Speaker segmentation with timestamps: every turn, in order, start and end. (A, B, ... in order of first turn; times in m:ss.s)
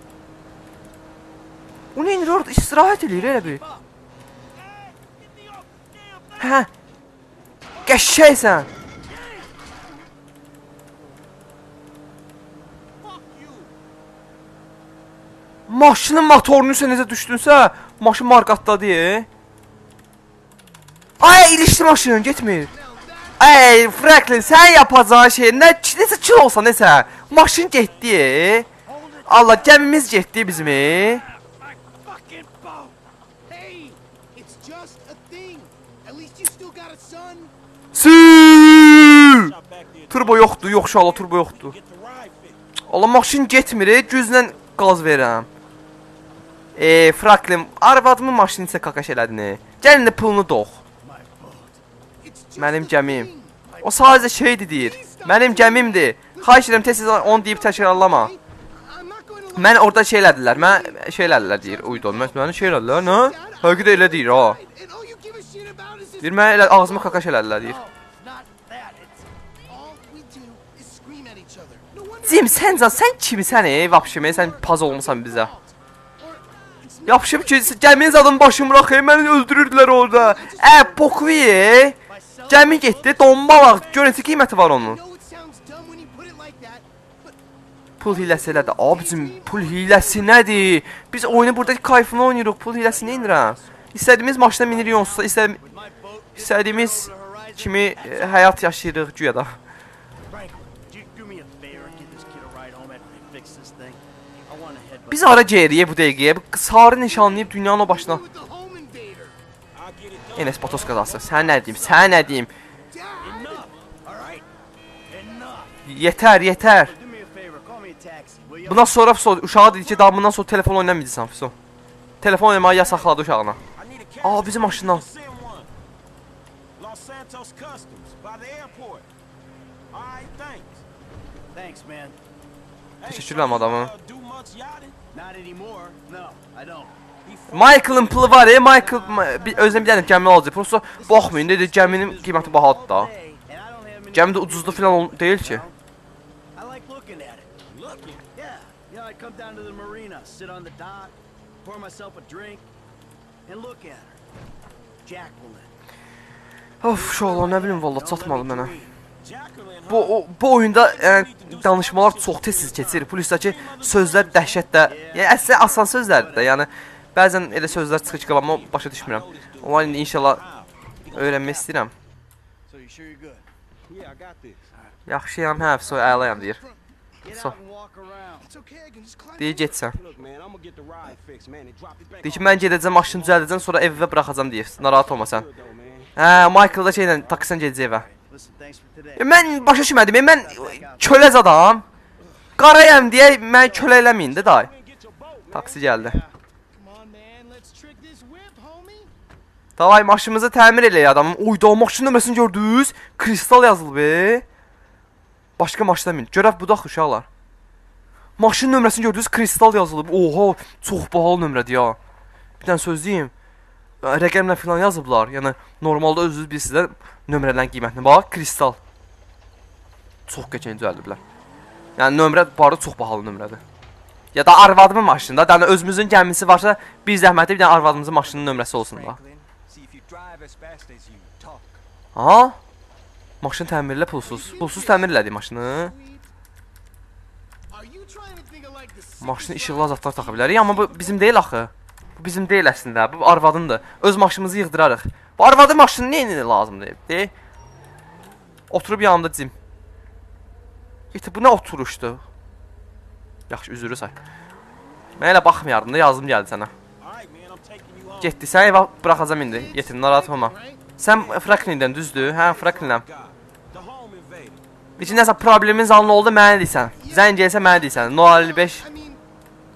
0:01.9-0:03.6 A
0:03.1-0:03.8 B
0:04.6-0:06.7 C
0:06.4-0:06.7 A
0:07.8-0:08.7 A
0:13.1-0:13.5 B
0:15.7-0:19.3 A
0:21.2-0:22.7 A
0:22.2-0:24.1 D
0:23.4-0:28.7 A
0:28.9-0:29.7 D
0:29.3-0:31.2 A
0:29.4-0:30.2 B
0:31.6-0:33.0 B
0:33.5-0:37.5 D
0:37.9-0:39.5 A
0:38.9-0:42.6 C
0:40.1-0:41.8 A
0:42.9-0:45.5 A
0:46.8-0:50.8 A
0:51.0-0:51.8 B
0:52.2-1:07.8 D
0:52.6-0:53.3 A
0:53.8-0:58.3 A
0:59.6-1:04.6 A
1:06.2-1:07.8 A
1:07.6-1:09.3 B
1:09.6-1:18.8 D
1:12.2-1:15.5 A
1:17.1-1:22.0 A
1:20.0-1:21.4 D
1:22.1-1:23.8 B
1:22.5-1:25.0 A
1:23.7-1:27.4 D
1:28.0-1:35.6 A
1:28.0-1:31.4 D
1:32.8-1:33.7 B
1:34.2-1:39.0 B
1:36.4-1:39.5 A
1:40.3-1:45.8 B
1:45.1-1:48.2 A
1:47.0-1:49.4 D
1:49.7-1:52.4 C
1:50.4-1:52.5 A
1:52.9-1:53.7 D
1:53.2-1:53.8 C
1:54.0-1:54.5 B
1:55.1-1:59.0 B
1:55.9-1:56.9 A
1:58.7-2:01.5 A
2:02.2-2:03.6 A
2:03.7-2:05.7 C
2:04.2-2:05.0 A
2:06.8-2:09.1 C
2:09.9-2:10.8 C
2:11.5-2:12.2 B
2:13.0-2:15.0 C
2:13.1-2:13.9 A
2:15.1-2:17.0 B
2:17.2-2:18.6 C
2:17.5-2:23.1 A
2:18.4-2:20.4 B
2:20.9-2:25.8 B
2:24.1-2:25.6 A
2:26.6-2:27.6 B
2:27.7-2:28.3 C
2:28.3-2:32.7 B
2:33.5-2:34.2 B
2:35.0-2:35.7 B
2:36.8-2:38.7 A
2:36.9-2:44.7 C
2:37.3-2:37.6 B
2:39.9-2:50.4 A
2:44.8-2:46.6 B
2:47.8-2:51.6 C
2:51.1-2:51.9 A
2:52.7-2:53.5 B
2:53.9-2:54.7 C
2:55.1-2:56.6 A
2:55.8-2:56.8 D
2:57.2-2:58.5 B
2:57.3-2:57.6 A
2:58.4-2:59.9 D
2:59.4-3:00.0 A
2:59.9-3:03.9 C
3:02.2-3:05.5 A
3:04.7-3:06.2 C
3:06.2-3:08.1 A
3:06.2-3:11.4 B
3:09.2-3:11.8 A
3:12.6-3:14.7 A
3:13.7-3:15.8 C
3:15.5-3:16.2 A
3:16.0-3:19.1 D
3:19.8-3:24.4 A
3:25.6-3:27.3 A
3:28.4-3:32.0 A
3:32.6-3:33.3 A
3:34.0-3:38.8 A
3:40.3-3:41.2 A
3:42.0-3:43.6 A
3:44.3-3:49.2 A
3:47.6-3:51.8 C
3:52.2-3:52.6 A
3:53.4-3:55.9 A
3:54.1-3:56.3 D
3:57.7-4:01.4 D
3:59.2-4:07.3 A
4:08.7-4:09.5 A
4:11.1-4:12.2 A
4:13.5-4:14.2 A
4:15.2-4:16.7 A
4:17.0-4:18.6 C
4:18.2-4:23.0 A
4:19.4-4:20.9 D
4:21.1-4:24.6 C
4:25.0-4:28.8 A
4:25.0-4:25.3 D
4:27.0-4:29.2 D